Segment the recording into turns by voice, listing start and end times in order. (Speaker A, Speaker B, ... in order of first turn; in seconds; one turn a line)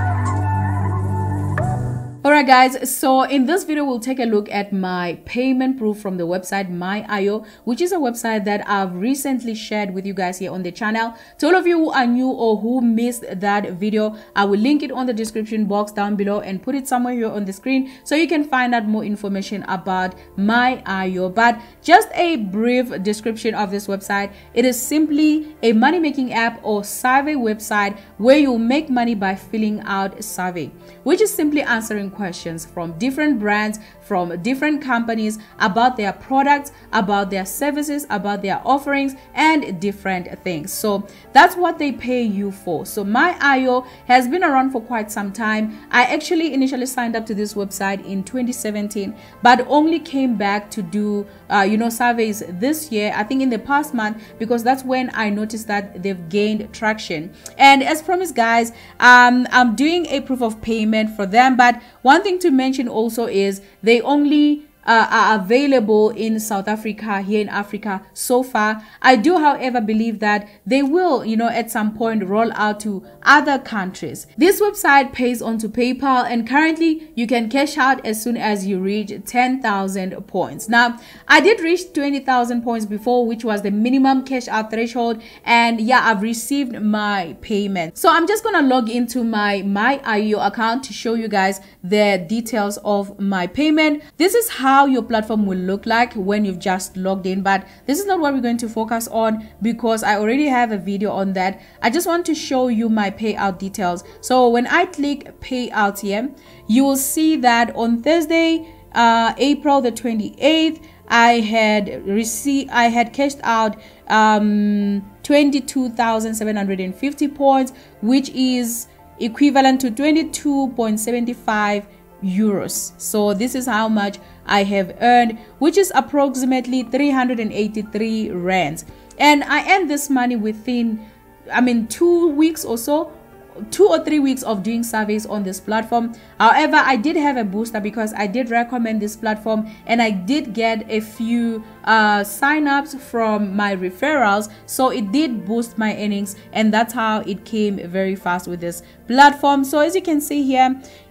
Speaker A: 2.2-133.1
Speaker A: 133.7-150.8